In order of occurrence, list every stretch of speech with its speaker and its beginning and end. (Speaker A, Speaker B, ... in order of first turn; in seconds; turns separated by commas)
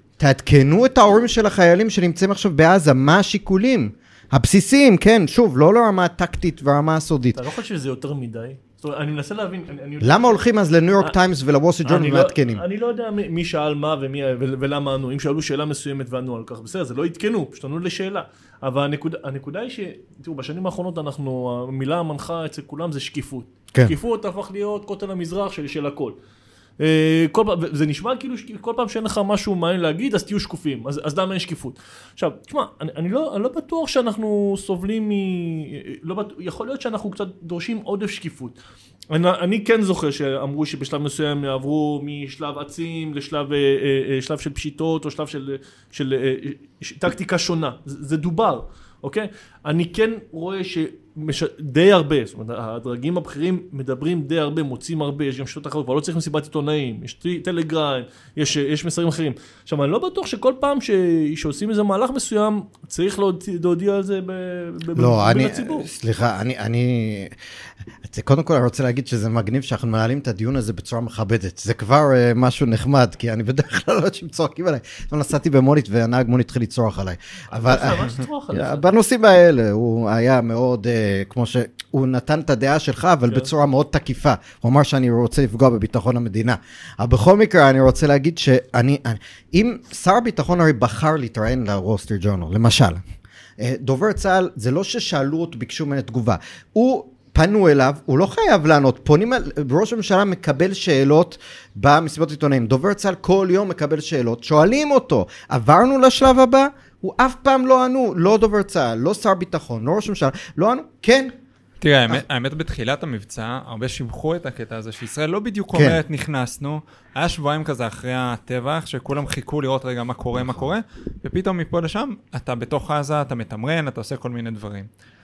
Speaker A: 0.2-7.4, Speaker B: 7.3-10.3, Speaker A: 10.0-12.6, Speaker B: 11.8-26.1, Speaker B: 26.8-38.6, Speaker B: 39.1-65.9, Speaker A: 64.9-67.3, Speaker A: 68.0-93.0, Speaker B: 77.5-78.9, Speaker A: 93.6-111.3, Speaker C: 111.8-124.9, Speaker A: 115.7-116.0